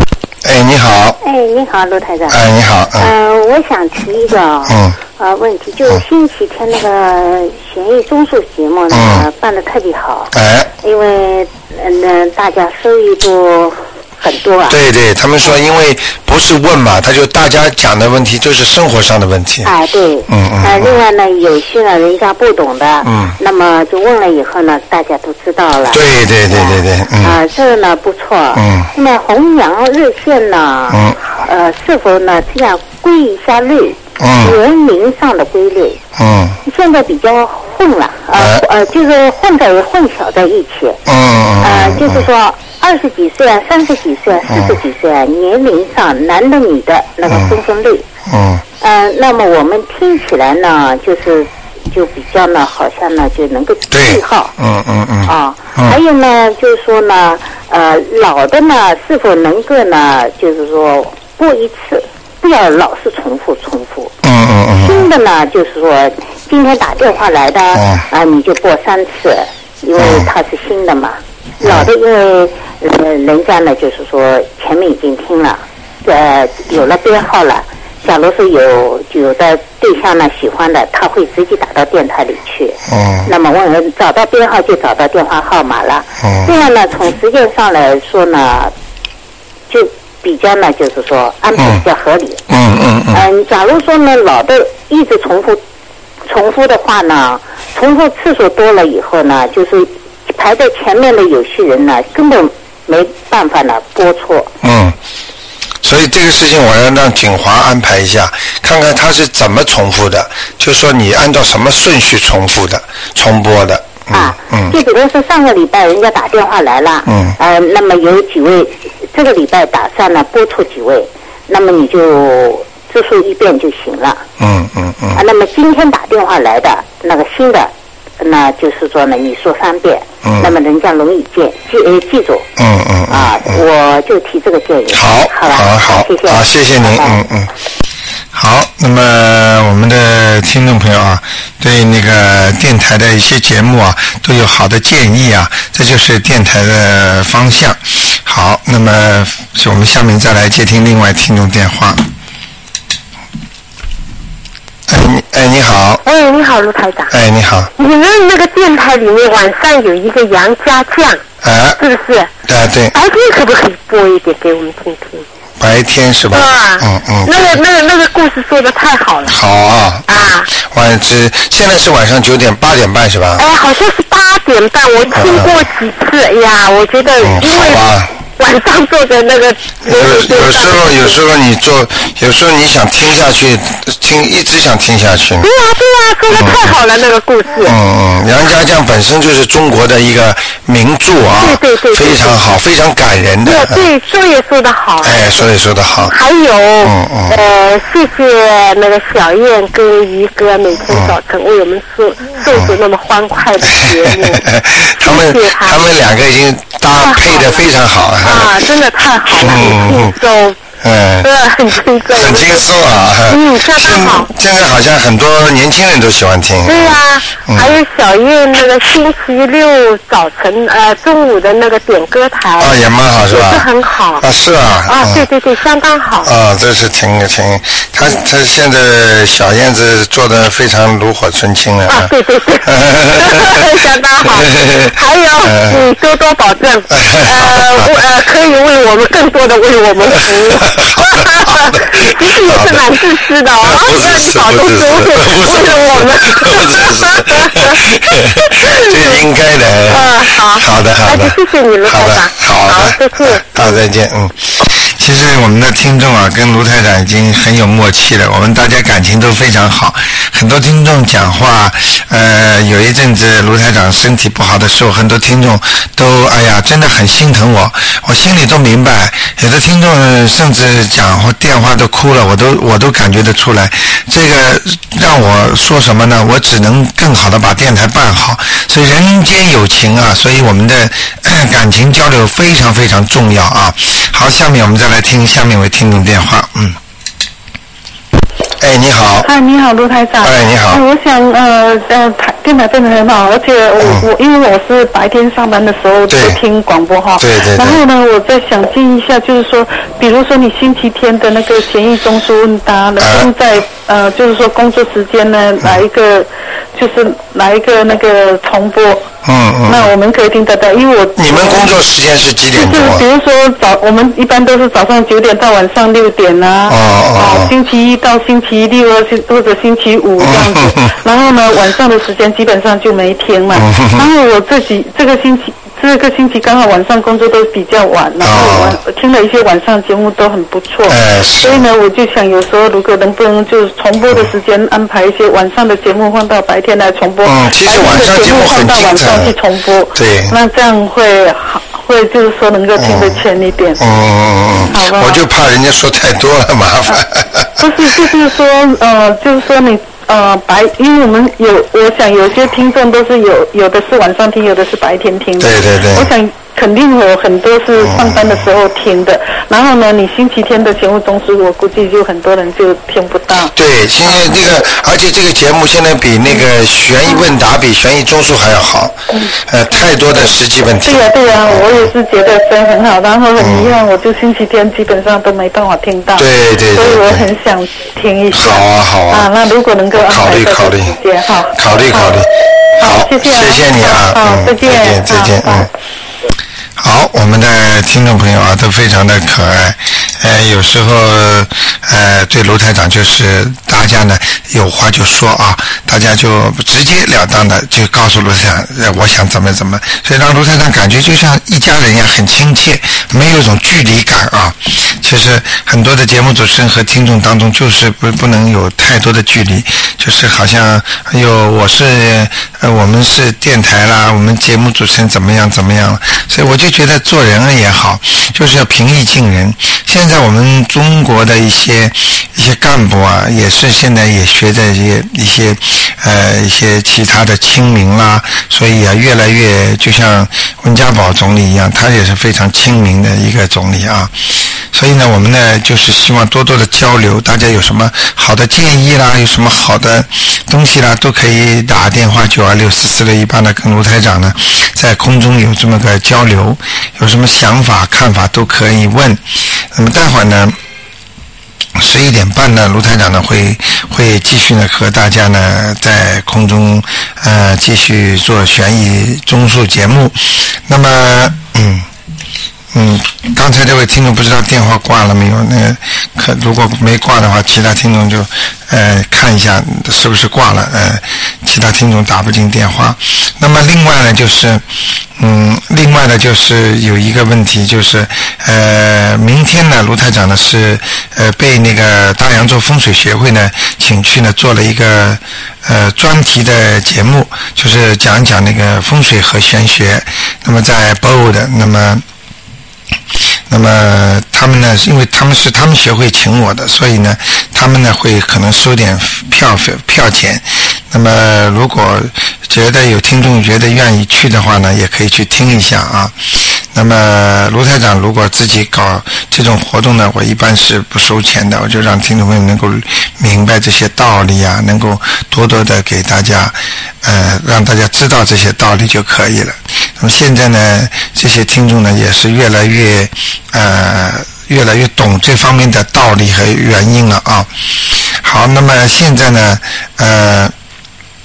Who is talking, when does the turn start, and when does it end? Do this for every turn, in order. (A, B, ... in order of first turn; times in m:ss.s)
0:00.4-0:01.2 A
0:01.2-0:02.4 B
0:02.3-0:03.1 A
0:03.0-0:14.8 B
0:04.7-0:05.0 A
0:08.9-0:09.2 A
0:10.3-0:10.7 A
0:14.7-0:19.7 A
0:19.6-0:36.0 B
0:20.3-0:21.0 A
0:23.0-0:23.4 A
0:25.9-0:27.4 A
0:28.6-0:28.9 A
0:30.9-0:31.2 A
0:34.2-0:34.6 A
0:36.2-0:36.6 A
0:36.6-0:41.0 B
0:38.4-0:38.6 A
0:41.1-0:42.3 A
0:41.6-0:48.1 B
0:44.5-0:44.8 A
0:47.3-0:47.6 A
0:48.3-0:48.6 A
0:48.8-0:54.5 B
0:53.9-0:56.0 A
0:55.2-1:04.1 B
1:04.2-1:05.1 A
1:04.8-1:28.7 B
1:07.7-1:08.0 A
1:10.0-1:10.3 A
1:11.6-1:11.9 A
1:22.9-1:23.3 A
1:26.2-1:26.5 A
1:29.7-1:32.4 B
1:31.6-1:31.8 A
1:32.5-1:33.2 A
1:33.1-1:35.6 B
1:36.3-1:44.5 B
1:44.6-1:45.0 A
1:45.8-1:54.8 A
1:54.1-2:04.2 B
1:57.1-1:57.4 A
2:04.4-2:05.2 A
2:05.1-2:12.5 B
2:10.2-2:10.5 A
2:12.6-2:13.6 A
2:13.1-2:17.2 B
2:14.9-2:17.5 A
2:18.3-2:32.0 A
2:34.9-2:36.0 A
2:36.0-2:37.1 C
2:37.1-2:37.7 A
2:37.8-2:41.2 C
2:41.4-2:41.8 A
2:41.8-2:42.3 C
2:42.5-2:43.0 A
2:42.9-2:45.2 C
2:45.6-2:47.6 A
2:46.3-2:49.4 C
2:49.2-2:53.4 A
2:50.1-2:50.5 C
2:53.4-2:57.8 C
2:55.1-2:55.6 A
2:57.2-2:58.1 A
2:58.4-3:01.2 C
2:59.8-3:05.5 A
3:05.4-3:07.8 C
3:06.3-3:06.8 A
3:07.6-3:13.9 A
3:11.4-3:12.4 C
3:13.4-3:15.5 C
3:15.0-3:16.1 A
3:16.1-3:25.8 C
3:16.8-3:17.4 A
3:20.9-3:21.2 A
3:22.5-3:22.8 A
3:23.6-3:28.7 A
3:27.0-3:27.6 C
3:28.2-3:30.6 C
3:29.3-3:30.2 A
3:30.8-3:31.3 A
3:31.2-3:32.6 C
3:32.1-3:37.8 A
3:33.3-3:34.3 C
3:36.6-3:42.7 C
3:42.6-3:45.2 A
3:43.3-3:44.2 C
3:44.9-3:46.3 C
3:46.2-3:52.1 A
3:51.9-4:09.2 C
3:52.6-3:53.7 A
3:54.2-3:55.9 A
3:56.9-3:58.0 A
4:00.1-4:03.0 A
4:03.6-4:46.8 A
4:09.9-4:13.6 C
4:48.6-4:49.3 A
4:49.2-5:09.1 D
4:50.2-4:50.8 A
4:53.8-4:54.1 A
4:56.1-4:56.4 A
4:57.2-4:57.8 A
5:03.0-5:03.3 A
5:09.2-5:09.9 A
5:09.6-5:11.7 D
5:11.2-5:13.0 A
5:12.5-5:43.8 D
5:16.7-5:17.5 A
5:20.2-5:20.9 A
5:23.5-5:24.1 A
5:28.2-5:28.8 A
5:30.9-5:31.6 A
5:37.2-5:39.4 A
5:39.9-5:40.4 A
5:42.8-5:43.2 A
5:43.8-5:47.9 A
5:44.7-5:45.2 D
5:47.6-6:03.5 D
5:55.4-5:56.1 A
5:57.8-5:58.5 A
6:03.5-6:11.9 A
6:04.1-6:04.4 D
6:10.8-6:22.2 D
6:13.4-6:13.8 A
6:16.2-6:17.3 A
6:18.3-6:19.3 A
6:20.0-6:21.0 A
6:21.5-6:25.7 A
6:22.8-6:25.7 D
6:26.8-7:14.1 A
7:14.7-7:30.6 A
7:31.8-7:41.9 A
7:42.7-7:54.6 A
7:55.2-8:12.0 A
8:13.5-8:50.5 A